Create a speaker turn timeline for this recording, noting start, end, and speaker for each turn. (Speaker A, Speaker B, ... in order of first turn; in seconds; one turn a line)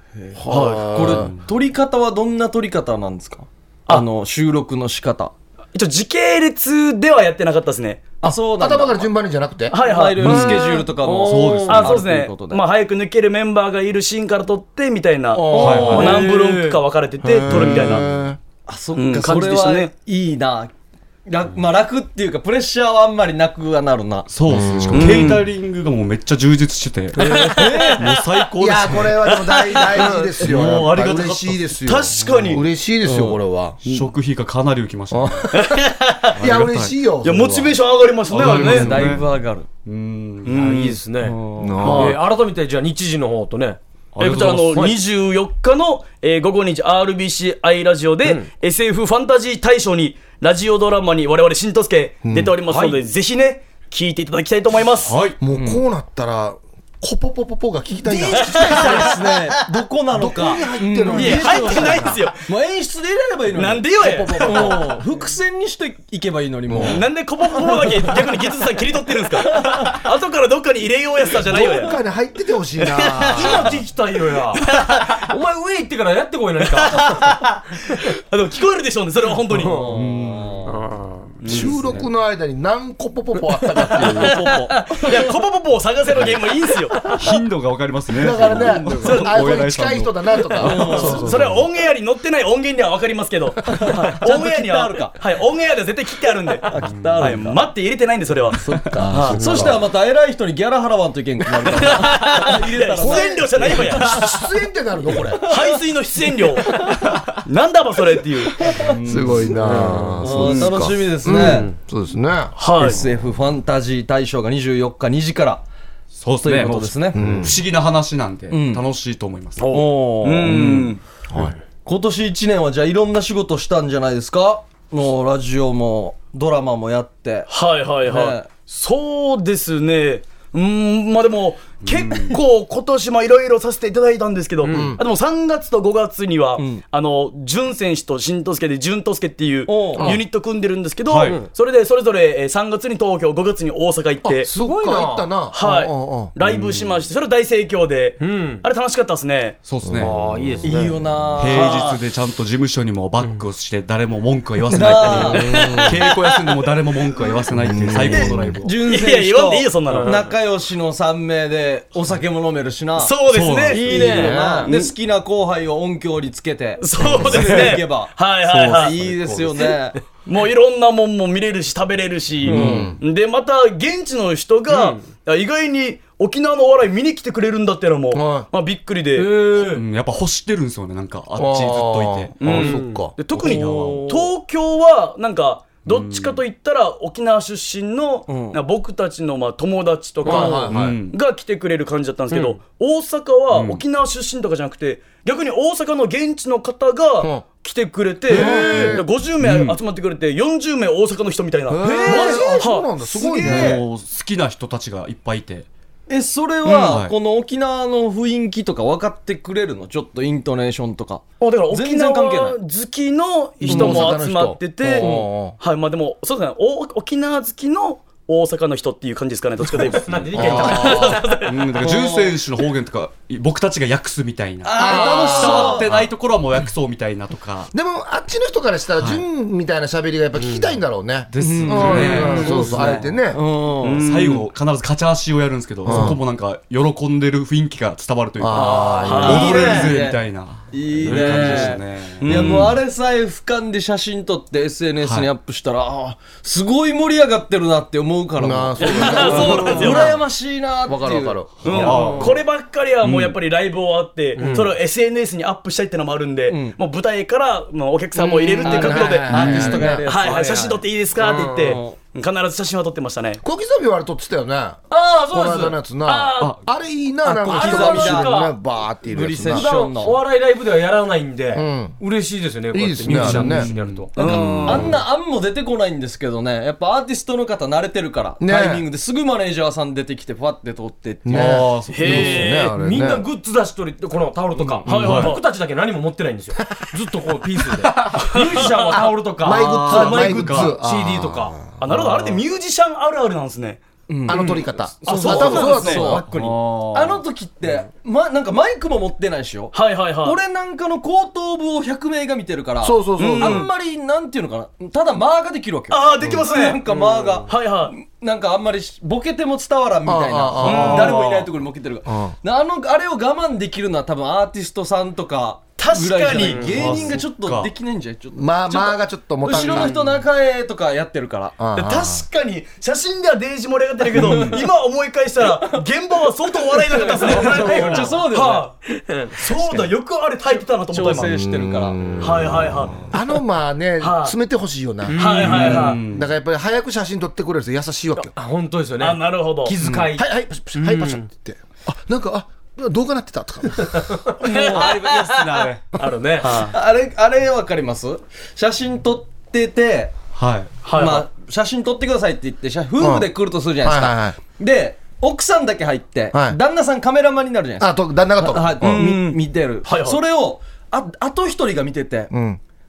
Speaker A: 0.2-5.3
Speaker B: 0.4-1.3
Speaker C: 0.5-0.8
Speaker D: 1.1-1.4
Speaker C: 5.7-8.2
Speaker A: 8.2-9.1
Speaker B: 8.3-9.8
Speaker C: 9.7-10.8
Speaker A: 9.7-12.6
Speaker D: 10.2-10.6
Speaker E: 10.2-12.0
Speaker D: 11.2-12.0
Speaker C: 11.7-18.0
Speaker A: 15.4-16.3
Speaker E: 15.5-16.8
Speaker D: 15.6-16.2
Speaker B: 17.2-18.4
Speaker D: 17.5-18.0
Speaker A: 18.7-20.7
Speaker C: 18.9-19.9
Speaker A: 21.3-24.3
Speaker D: 24.3-29.4
Speaker B: 24.5-25.3
Speaker C: 24.9-25.4
Speaker A: 27.2-28.1
Speaker C: 27.4-28.2
Speaker E: 27.4-27.9
Speaker B: 28.6-33.8
Speaker C: 29.3-30.3
Speaker D: 30.4-32.6
Speaker C: 31.8-32.6
Speaker A: 33.0-33.4
Speaker D: 33.8-35.5
Speaker B: 35.1-35.7
Speaker C: 35.5-36.4
Speaker D: 36.4-37.0
Speaker B: 36.4-37.8
Speaker C: 37.2-39.0
Speaker D: 38.3-39.3
Speaker A: 38.3-39.7
Speaker D: 39.8-40.7
Speaker C: 40.5-41.0
Speaker E: 40.5-43.8
Speaker A: 41.2-41.7
Speaker B: 41.5-42.2
Speaker C: 41.8-42.1
Speaker D: 44.1-44.8
Speaker C: 44.2-55.2
Speaker E: 44.7-45.0
Speaker B: 52.2-52.5
Speaker E: 52.7-53.0
Speaker D: 55.0-55.4
Speaker B: 55.4-59.2
Speaker C: 58.1-59.1
Speaker A: 58.3-67.1
Speaker B: 60.1-62.2
Speaker C: 61.1-62.4
Speaker C: 63.5-64.8
Speaker B: 64.0-65.0
Speaker B: 66.7-67.0
Speaker C: 66.8-72.0
Speaker B: 71.5-73.8
Speaker C: 72.9-73.7
Speaker E: 73.2-77.2
Speaker C: 74.7-75.1
Speaker C: 76.8-79.9
Speaker A: 79.6-80.8
Speaker E: 79.6-79.9
Speaker D: 79.9-80.8
Speaker E: 80.7-81.4
Speaker C: 81.4-81.8
Speaker B: 81.4-84.4
Speaker D: 81.5-82.0
Speaker E: 83.8-85.2
Speaker C: 84.8-87.1
Speaker D: 87.1-90.3
Speaker B: 88.1-91.5
Speaker C: 89.0-89.4
Speaker C: 90.6-99.6
Speaker A: 90.6-91.3
Speaker D: 91.2-91.6
Speaker A: 94.1-95.1
Speaker A: 96.7-97.6
Speaker A: 98.7-104.1
Speaker B: 98.7-99.8
Speaker C: 101.7-104.4
Speaker B: 103.0-105.5
Speaker C: 105.4-106.8
Speaker C: 107.4-108.7
Speaker D: 108.7-109.8
Speaker B: 109.0-112.5
Speaker E: 109.6-110.2
Speaker A: 110.2-111.7
Speaker E: 111.3-111.7
Speaker C: 112.6-113.0
Speaker A: 112.8-115.6
Speaker D: 116.1-119.8
Speaker A: 116.4-117.2
Speaker B: 117.1-117.6
Speaker A: 118.5-118.8
Speaker E: 119.6-119.9
Speaker A: 119.7-120.7
Speaker C: 120.2-121.0
Speaker D: 120.5-120.9
Speaker B: 121.3-121.5
Speaker A: 121.8-127.5
Speaker C: 127.5-144.5
Speaker A: 128.0-128.5
Speaker D: 131.8-132.4
Speaker E: 134.7-134.9
Speaker B: 134.7-135.0
Speaker A: 136.6-136.8
Speaker A: 139.7-140.1
Speaker D: 141.1-141.4
Speaker B: 144.2-146.3
Speaker E: 144.5-145.3
Speaker C: 145.5-149.6
Speaker D: 146.4-147.0
Speaker E: 148.2-148.6
Speaker D: 149.6-150.2
Speaker B: 149.8-150.1
Speaker E: 150.0-151.0
Speaker A: 150.6-151.9
Speaker D: 151.3-158.8
Speaker C: 151.5-152.0
Speaker A: 154.7-155.6
Speaker B: 155.3-156.1
Speaker B: 157.6-158.6
Speaker A: 158.1-163.1
Speaker C: 158.8-160.2
Speaker E: 159.9-160.3
Speaker C: 163.0-164.1
Speaker D: 163.3-164.0
Speaker A: 163.7-170.0
Speaker E: 163.7-164.7
Speaker B: 164.1-164.7
Speaker D: 164.7-164.9
Speaker C: 166.8-168.9
Speaker D: 167.1-167.4
Speaker D: 168.5-169.7
Speaker C: 170.2-179.3
Speaker B: 172.4-173.0
Speaker A: 172.5-172.9
Speaker D: 172.5-172.8
Speaker E: 174.7-175.0
Speaker B: 178.1-178.5
Speaker E: 179.2-179.8
Speaker D: 179.5-182.4
Speaker B: 181.3-183.1
Speaker C: 182.4-202.9
Speaker E: 182.4-184.2
Speaker D: 183.3-184.1
Speaker D: 185.8-186.4
Speaker A: 188.3-188.6
Speaker B: 190.2-190.9
Speaker E: 190.2-190.6
Speaker D: 190.7-191.2
Speaker E: 192.3-192.6
Speaker D: 193.5-193.8
Speaker B: 198.3-199.0
Speaker D: 198.7-199.8
Speaker B: 201.7-203.8
Speaker A: 201.8-203.8
Speaker D: 203.4-205.7
Speaker A: 206.1-212.6
Speaker D: 206.7-207.1
Speaker C: 211.4-221.6
Speaker B: 213.6-215.6
Speaker A: 213.7-214.1
Speaker A: 215.0-215.3
Speaker E: 219.7-221.5
Speaker D: 220.3-227.7
Speaker B: 220.4-221.0
Speaker A: 221.8-222.3
Speaker A: 224.6-225.9
Speaker B: 224.8-226.0
Speaker B: 227.7-233.4
Speaker D: 229.0-229.2
Speaker E: 230.4-230.7
Speaker E: 231.3-233.0
Speaker A: 231.4-234.0
Speaker D: 231.7-233.0
Speaker C: 233.8-234.5
Speaker D: 234.0-242.7
Speaker B: 235.8-236.2
Speaker B: 238.4-239.5
Speaker A: 238.5-252.3
Speaker E: 238.7-238.9
Speaker C: 239.0-239.6
Speaker E: 239.5-239.8
Speaker E: 241.1-241.7
Speaker C: 242.2-242.8
Speaker D: 245.0-245.3
Speaker B: 248.4-250.2
Speaker C: 248.8-250.2
Speaker B: 250.9-251.6
Speaker C: 251.6-259.4
Speaker D: 251.7-252.4
Speaker D: 253.0-253.3
Speaker A: 254.4-254.7
Speaker E: 254.4-254.7
Speaker A: 256.5-256.8
Speaker B: 258.5-260.0
Speaker A: 258.6-261.9
Speaker D: 259.3-260.0
Speaker E: 259.5-260.8
Speaker C: 260.1-263.4
Speaker B: 263.4-269.7
Speaker E: 264.9-265.8
Speaker C: 266.1-266.5
Speaker E: 267.2-268.6
Speaker A: 267.4-268.4
Speaker A: 269.1-270.2
Speaker E: 269.5-274.1
Speaker B: 271.5-272.0
Speaker B: 272.7-273.7
Speaker D: 273.1-275.0
Speaker C: 274.1-274.9
Speaker A: 274.2-281.6
Speaker B: 278.4-278.9
Speaker B: 281.2-283.2
Speaker D: 281.3-282.6
Speaker C: 281.9-282.7
Speaker E: 282.2-291.6
Speaker D: 284.8-285.3
Speaker C: 284.9-285.4
Speaker B: 287.8-288.3
Speaker C: 288.5-288.9
Speaker B: 288.9-291.8
Speaker D: 289.5-290.8
Speaker C: 291.8-293.8
Speaker A: 294.1-321.6
Speaker B: 294.2-296.3
Speaker E: 294.3-296.5
Speaker C: 295.0-296.1
Speaker D: 296.2-297.2
Speaker C: 299.7-300.4
Speaker B: 302.8-303.6
Speaker C: 303.2-303.7
Speaker C: 305.9-306.8
Speaker E: 306.9-307.4
Speaker C: 307.5-307.9
Speaker B: 310.0-311.1
Speaker D: 310.6-311.5
Speaker C: 310.6-311.2
Speaker B: 312.1-312.3
Speaker C: 315.8-316.9
Speaker E: 316.4-317.0
Speaker D: 316.6-317.7
Speaker B: 318.3-320.0
Speaker B: 321.6-322.2
Speaker C: 321.8-328.8
Speaker D: 324.1-324.6
Speaker A: 324.2-324.6
Speaker E: 326.9-328.3
Speaker A: 326.9-328.7
Speaker E: 328.9-329.9
Speaker C: 329.3-331.3
Speaker A: 330.9-332.2
Speaker B: 331.2-338.3
Speaker C: 332.2-333.0
Speaker C: 334.0-334.4
Speaker E: 335.1-336.0
Speaker C: 335.2-336.0
Speaker D: 335.4-336.3
Speaker E: 338.2-341.3
Speaker C: 339.0-339.8
Speaker B: 339.8-344.2
Speaker E: 344.2-346.7
Speaker A: 344.4-344.9
Speaker C: 344.4-345.2
Speaker C: 346.4-346.7
Speaker A: 346.4-350.1
Speaker D: 350.3-350.7
Speaker C: 350.8-351.3
Speaker A: 350.9-362.3
Speaker B: 353.0-354.4
Speaker B: 356.3-356.6
Speaker B: 357.8-359.1
Speaker C: 358.8-360.2
Speaker B: 362.3-362.6